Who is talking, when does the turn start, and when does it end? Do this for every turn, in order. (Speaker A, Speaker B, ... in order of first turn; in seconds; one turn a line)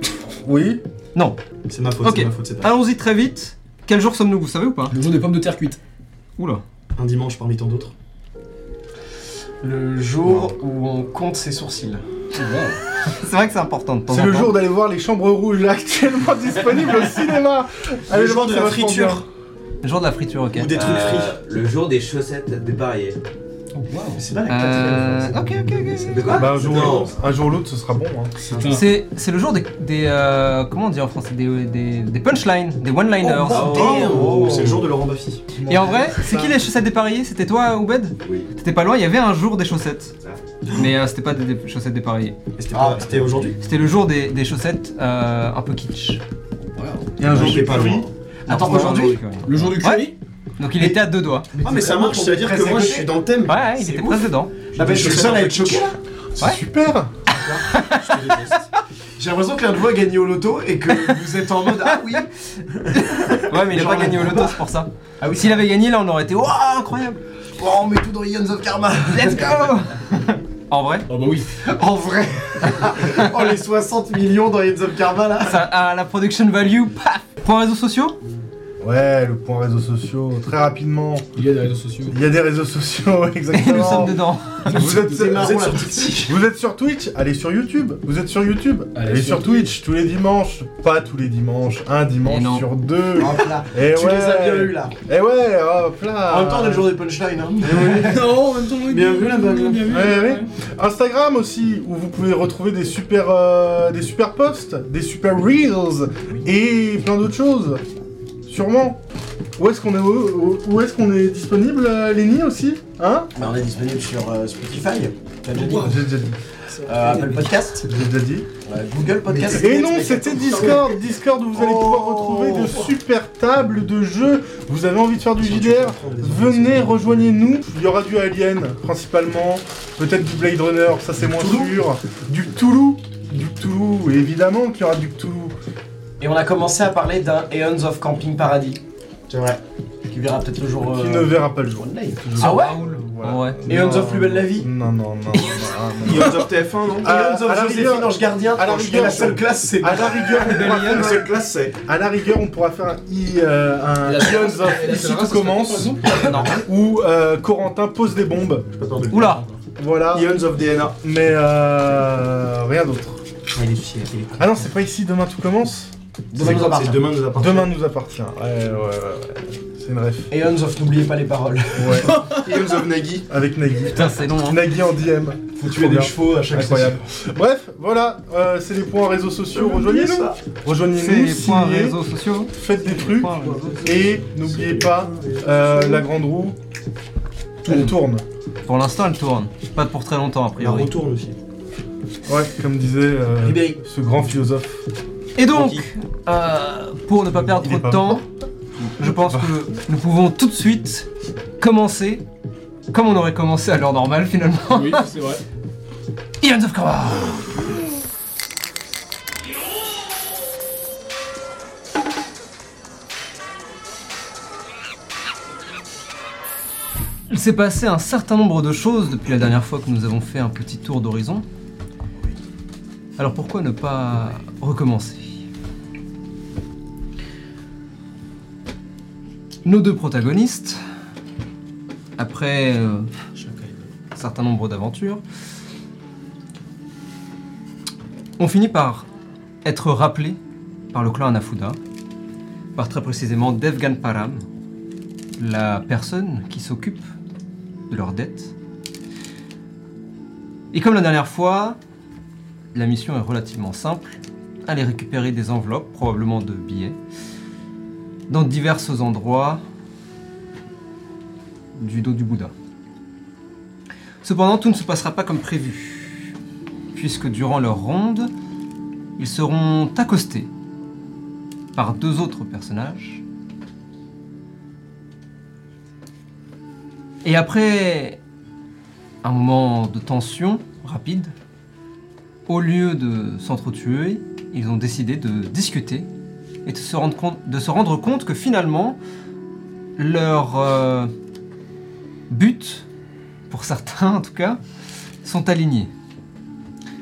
Speaker A: 0.4-0.8
Speaker B: 1.7-2.8
Speaker C: 2.0-5.0
Speaker D: 4.9-5.8
Speaker C: 6.4-6.6
Speaker B: 7.0-7.9
Speaker E: 9.6-12.0
Speaker B: 10.2-10.6
Speaker D: 12.3-12.8
Speaker C: 13.1-14.6
Speaker A: 14.1-19.2
Speaker B: 18.1-19.2
Speaker C: 19.8-20.9
Speaker B: 20.5-21.4
Speaker F: 20.7-23.2
Speaker D: 23.7-24.2
Speaker B: 24.1-27.3
Speaker C: 24.5-26.4
Speaker F: 26.1-27.1
Speaker A: 26.4-28.4
Speaker D: 28.4-28.9
Speaker B: 28.4-28.8
Speaker C: 28.7-34.2
Speaker E: 33.2-34.9
Speaker F: 33.4-34.2
Speaker B: 33.5-35.4
Speaker A: 35.6-36.6
Speaker C: 35.7-40.1
Speaker B: 40.6-40.9
Speaker C: 40.7-42.4
Speaker B: 42.6-43.6
Speaker E: 42.7-43.5
Speaker C: 43.6-46.2
Speaker D: 46.8-47.0
Speaker A: 47.2-48.1
Speaker B: 47.2-48.1
Speaker E: 48.5-49.2
Speaker C: 48.5-51.5
Speaker D: 49.5-50.1
Speaker B: 51.5-53.7
Speaker E: 51.6-53.2
Speaker C: 53.5-54.5
Speaker E: 53.8-56.0
Speaker B: 54.8-55.9
Speaker D: 54.8-55.4
Speaker A: 56.4-57.1
Speaker B: 57.3-57.6
Speaker C: 57.6-58.6
Speaker E: 59.2-62.3
Speaker C: 62.9-67.2
Speaker B: 63.7-64.4
Speaker E: 63.7-64.6
Speaker E: 65.2-65.6
Speaker E: 67.6-69.7
Speaker C: 69.1-71.1
Speaker D: 71.1-71.6
Speaker E: 71.7-75.7
Speaker C: 73.0-73.2
Speaker C: 75.4-78.2
Speaker A: 78.8-81.3
Speaker D: 81.3-82.2
Speaker A: 82.1-84.2
Speaker C: 83.5-85.0
Speaker D: 84.7-85.5
Speaker E: 84.8-86.3
Speaker B: 85.1-86.3
Speaker A: 86.3-96.9
Speaker D: 88.9-89.7
Speaker C: 92.3-92.7
Speaker E: 93.1-95.0
Speaker E: 96.3-98.3
Speaker A: 97.6-98.3
Speaker D: 98.0-100.5
Speaker B: 98.9-99.9
Speaker E: 98.9-99.8
Speaker A: 99.9-107.8
Speaker A: 108.5-109.0
Speaker A: 109.6-113.3
Speaker E: 113.4-116.1
Speaker A: 115.6-116.4
Speaker E: 116.9-117.9
Speaker A: 117.0-118.5
Speaker E: 118.6-120.9
Speaker B: 119.3-120.7
Speaker A: 119.3-135.6
Speaker B: 121.6-122.7
Speaker E: 121.7-122.8
Speaker B: 125.4-127.3
Speaker E: 131.4-131.7
Speaker E: 136.2-138.8
Speaker B: 139.3-139.6
Speaker E: 140.1-142.8
Speaker A: 140.8-146.5
Speaker C: 142.4-143.6
Speaker E: 143.7-144.7
Speaker B: 146.0-147.2
Speaker A: 147.0-158.7
Speaker E: 147.1-150.3
Speaker B: 150.4-151.8
Speaker C: 150.4-151.2
Speaker D: 154.0-156.5
Speaker C: 156.1-156.6
Speaker B: 158.8-159.4
Speaker C: 159.1-159.4
Speaker D: 159.3-159.6
Speaker A: 159.8-160.4
Speaker B: 160.1-161.0
Speaker A: 161.0-163.2
Speaker B: 163.5-164.6
Speaker A: 164.4-165.9
Speaker E: 166.3-167.1
Speaker B: 166.3-167.7
Speaker A: 167.3-170.3
Speaker E: 170.3-172.2
Speaker A: 171.8-172.2
Speaker B: 172.1-173.3
Speaker A: 173.3-182.0
Speaker C: 173.9-174.6
Speaker E: 175.6-177.0
Speaker B: 179.5-180.4
Speaker C: 180.9-183.8
Speaker A: 182.5-186.6
Speaker B: 183.1-186.1
Speaker A: 187.6-188.2
Speaker C: 188.7-190.9
Speaker B: 190.6-191.4
Speaker A: 192.2-194.8
Speaker E: 193.4-193.8
Speaker C: 195.4-198.2
Speaker B: 195.5-195.8
Speaker A: 197.3-198.2
Speaker C: 199.0-201.1
Speaker A: 199.0-199.5
Speaker C: 201.6-202.2
Speaker C: 202.9-205.1
Speaker D: 204.7-205.4
Speaker C: 206.4-207.6
Speaker C: 217.3-221.5
Speaker C: 223.2-225.4
Speaker C: 229.7-230.8
Speaker C: 232.2-233.1
Speaker C: 234.2-235.2
Speaker C: 238.4-239.1
Speaker C: 239.7-240.4
Speaker C: 240.9-241.8
Speaker C: 242.8-244.4
Speaker C: 245.4-247.1
Speaker C: 247.9-248.6
Speaker C: 250.7-251.8
Speaker C: 252.7-257.0
Speaker C: 258.3-259.6
Speaker C: 261.8-262.5
Speaker C: 264.2-266.3
Speaker C: 266.9-268.3
Speaker C: 269.2-270.5
Speaker C: 271.8-273.2
Speaker C: 277.2-278.2
Speaker C: 279.2-281.3
Speaker C: 282.5-286.1
Speaker C: 286.6-289.0
Speaker C: 290.0-291.1
Speaker C: 292.3-292.9
Speaker C: 293.5-294.6
Speaker C: 295.2-295.9